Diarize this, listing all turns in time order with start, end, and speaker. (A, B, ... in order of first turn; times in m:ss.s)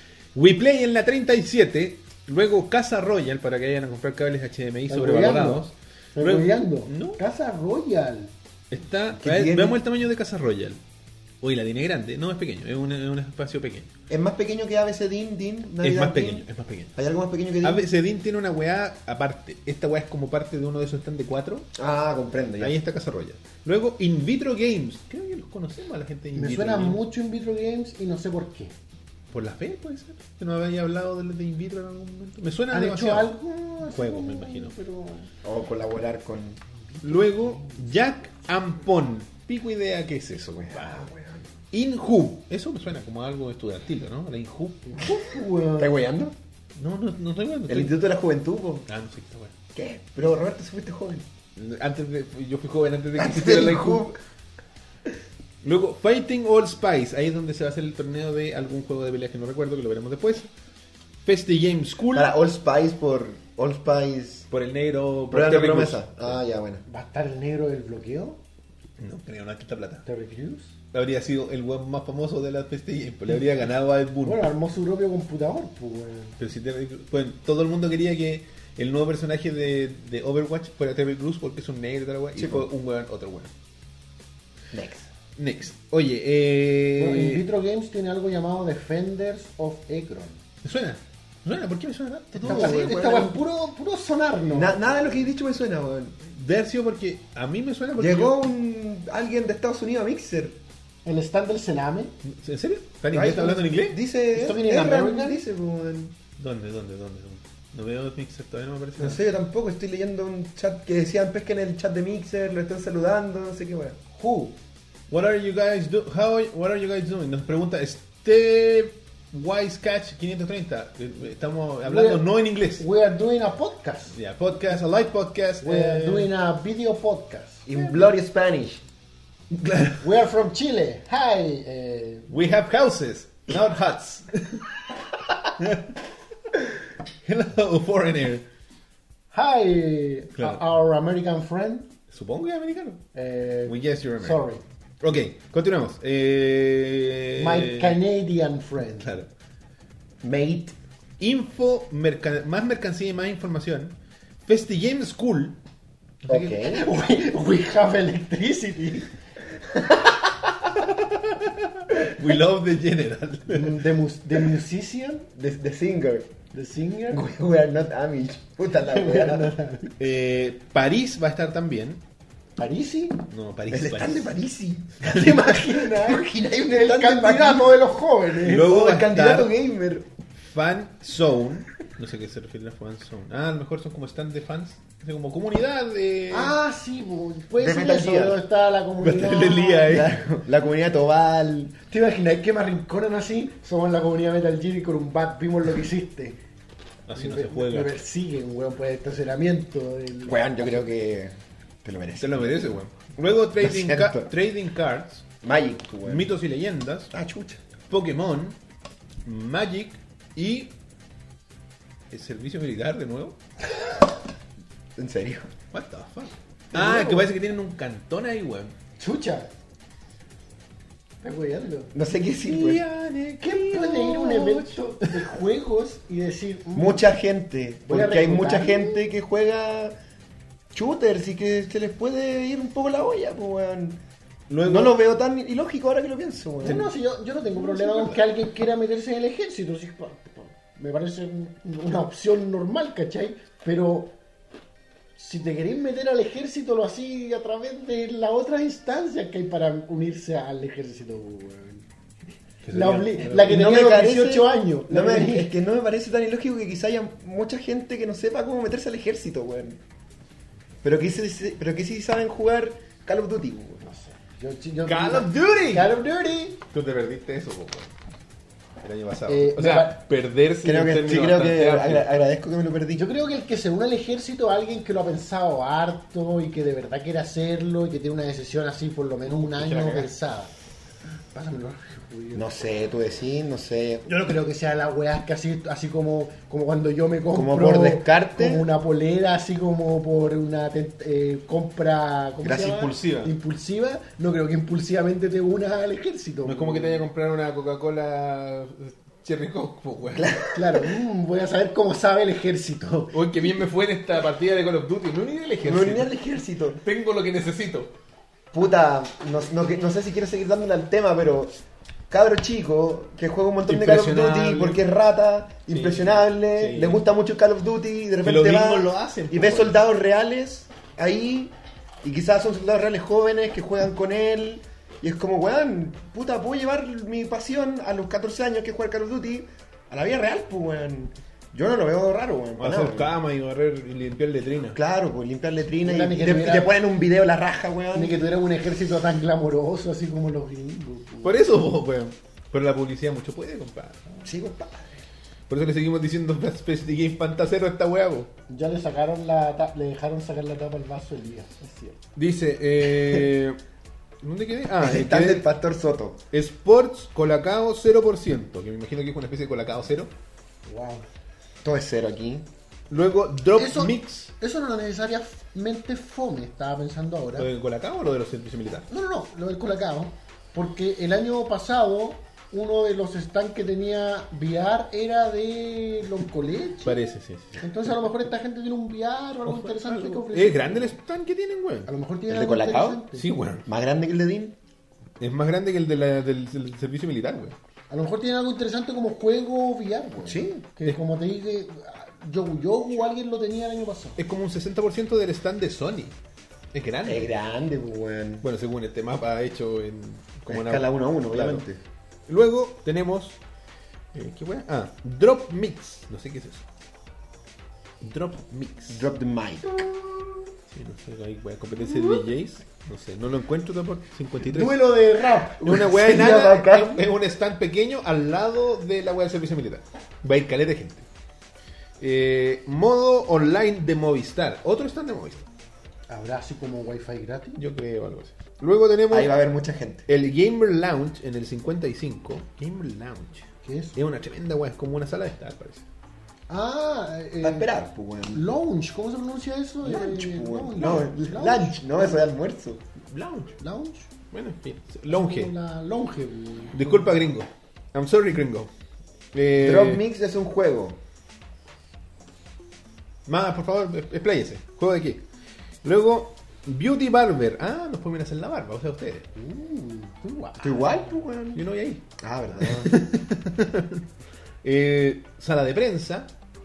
0:00.4-0:07.2 A
0:04.9-0:05.6 B
0:06.2-0:08.3 B
0:08.7-0:10.8 A
0:09.2-0:09.8 C
0:11.4-0:13.9 A
0:14.1-0:16.4 C
0:15.8-0:17.0 A
0:17.0-0:17.9 C
0:17.6-0:21.7 A
0:21.8-0:22.8 C
0:22.6-0:27.0 A
0:26.4-0:28.7 B
0:29.3-0:33.4 A
0:32.7-0:35.3 B
0:33.9-0:34.7 A
0:35.4-0:36.6 C
0:37.0-0:37.8 B
0:37.0-0:41.1 A
0:40.6-0:41.5 C
0:41.7-0:45.0 A
0:44.9-0:45.9 B
0:45.8-0:46.4 C
0:46.8-0:48.0 A
0:47.7-0:48.9 C
0:48.9-0:49.5 A
0:49.8-0:51.3 C
0:51.6-0:54.1 A
0:53.2-0:54.2 C
0:55.6-1:00.5 A
1:01.2-1:02.3 A
1:02.1-1:04.5 C
1:04.5-1:06.4 A
1:05.3-1:06.8 C
1:06.9-1:08.4 B
1:09.0-1:10.0 A
1:10.1-1:10.7 B
1:10.9-1:14.4 A
1:14.2-1:16.4 B
1:16.4-1:23.5 A
1:22.4-1:22.7 C
1:24.7-1:25.1 C
1:25.4-1:27.4 A
1:27.0-1:30.4 B
1:30.6-1:33.2 A
1:32.4-1:33.4 C
1:32.4-1:34.9 B
1:34.5-1:36.2 C
1:36.3-1:38.4 A
1:38.0-1:40.6 C
1:41.0-1:42.1 B
1:42.2-1:44.0 A
1:43.1-1:46.2 C
1:44.3-1:45.4 B
1:46.4-1:49.2 A
1:49.0-1:54.0 C
1:54.2-1:54.5 A
1:55.1-2:02.9 A
2:01.8-2:04.2 B
2:04.1-2:06.3 A
2:05.6-2:08.0 B
2:07.7-2:08.8 C
2:09.5-2:10.0 A
2:10.0-2:12.3 B
2:12.3-2:14.7 A
2:15.6-2:15.9 A
2:17.2-2:18.4 A
2:19.3-2:21.9 B
2:22.1-2:23.0 A
2:23.2-2:24.6 B
2:23.7-2:24.4 A
2:25.0-2:28.0 A
2:27.4-2:29.2 B
2:29.0-2:29.3 A
2:30.2-2:30.8 C
2:31.2-2:34.0 A
2:34.5-2:35.6 A
2:36.2-2:36.7 A
2:36.3-2:36.8 C
2:36.6-2:39.1 B
2:40.9-2:43.8 A
2:43.5-2:45.3 B
2:45.4-2:46.3 C
2:46.5-2:47.2 B
2:47.1-2:49.5 C
2:48.9-2:49.9 B
2:50.0-2:52.0 A
2:52.6-2:53.2 B
2:53.3-2:54.3 A
2:53.7-2:57.8 C
2:55.0-2:58.7 B
2:58.4-2:59.5 A
2:58.5-3:00.1 C
3:00.4-3:06.6 A
3:06.3-3:10.0 B
3:07.6-3:08.4 C
3:09.0-3:10.2 A
3:09.9-3:11.8 C
3:11.9-3:16.4 B
3:17.1-3:17.9 A
3:17.2-3:20.8 B
3:20.3-3:22.8 C
3:22.2-3:25.3 A
3:23.6-3:24.3 C
3:25.4-3:26.3 C
3:26.0-3:27.1 A
3:27.1-3:27.6 C
3:27.9-3:28.6 A
3:29.2-3:30.7 A
3:32.1-3:33.4 A
3:35.0-3:35.5 C
3:35.7-3:38.8 A
3:36.7-3:37.3 C
3:39.0-3:39.5 B
3:41.2-3:41.9 B
3:41.9-3:42.8 C
3:42.4-3:45.3 A
3:43.4-3:47.1 B
3:46.7-3:50.0 C
3:47.9-3:49.0 B
3:50.7-3:54.0 C
3:54.5-3:55.0 A
3:54.6-3:56.9 C
3:56.6-4:04.1 B
3:57.6-3:58.2 C
4:05.2-4:11.8 B
4:12.6-4:13.6 A
4:12.7-4:15.5 B
4:13.4-4:19.8 C
4:20.8-4:23.8 C
4:23.8-4:26.6 B
4:24.9-4:25.9 A
4:26.7-4:27.9 A
4:28.8-4:32.1 A
4:29.3-4:30.0 B
4:30.6-4:33.0 C
4:33.0-4:40.5 B
4:39.3-4:40.1 A
4:41.3-4:42.5 B
4:42.3-4:44.1 C
4:44.1-4:57.0 B
4:47.3-4:48.7 C
4:52.4-4:53.3 A
4:56.4-5:00.4 A
5:00.1-5:00.9 C
5:00.5-5:03.3 B
5:03.1-5:06.1 A
5:05.6-5:06.8 C
5:06.8-5:07.9 A
5:08.5-5:33.1 C
5:13.7-5:14.8 A
5:15.7-5:17.0 A
5:18.2-5:19.8 A
5:32.6-5:34.8 A
5:34.7-5:38.2 C
5:35.8-5:36.7 B
5:37.9-5:41.4 B
5:41.2-5:44.0 A
5:44.2-5:45.0 C
5:45.5-5:48.3 A
5:48.5-5:52.0 B
5:52.2-5:53.6 A
5:54.2-5:55.4 A
5:54.8-5:56.2 C
5:56.3-6:00.1 A
6:00.6-6:01.1 B
6:01.6-6:02.5 C
6:02.9-6:04.3 A
6:03.6-6:07.5 B
6:07.4-6:08.9 A
6:08.9-6:17.0 B
6:16.8-6:17.6 A
6:17.6-6:21.0 B
6:19.5-6:21.9 A
6:21.9-6:23.3 B
6:22.3-6:23.0 C
6:23.1-6:23.6 A
6:23.7-6:24.6 C
6:25.2-6:27.6 A
6:27.9-6:34.2 B
6:30.2-6:30.7 C
6:34.2-6:36.2 A
6:36.7-6:37.3 A
6:37.0-6:38.4 C
6:38.4-6:41.6 A
6:40.5-6:41.8 C
6:42.3-6:43.4 A
6:44.1-6:46.6 A
6:48.0-6:49.1 A
6:48.9-6:49.9 C
6:50.7-6:54.9 A
6:54.4-6:55.6 B
6:55.6-7:01.1 A
6:55.6-6:57.0 C
7:02.0-7:05.4 A
7:06.1-7:07.6 B
7:07.6-7:09.3 A
7:09.1-7:10.1 C
7:10.1-7:15.8 A
7:13.6-7:14.0 B
7:16.5-7:17.7 B
7:17.4-7:18.5 C
7:18.3-7:22.2 B
7:19.8-7:22.8 C
7:23.1-7:23.6 A
7:23.6-7:24.1 B
7:24.3-7:25.5 A
7:25.1-7:27.1 B
7:26.7-7:28.7 A
7:29.3-7:30.0 A
7:29.6-7:31.0 C
7:33.3-7:35.2 A
7:35.8-7:39.3 A
7:39.4-7:41.0 B
7:40.6-7:41.6 C
7:41.5-7:42.0 A
7:42.2-7:43.0 C
7:42.6-7:44.0 A
7:44.6-7:46.3 A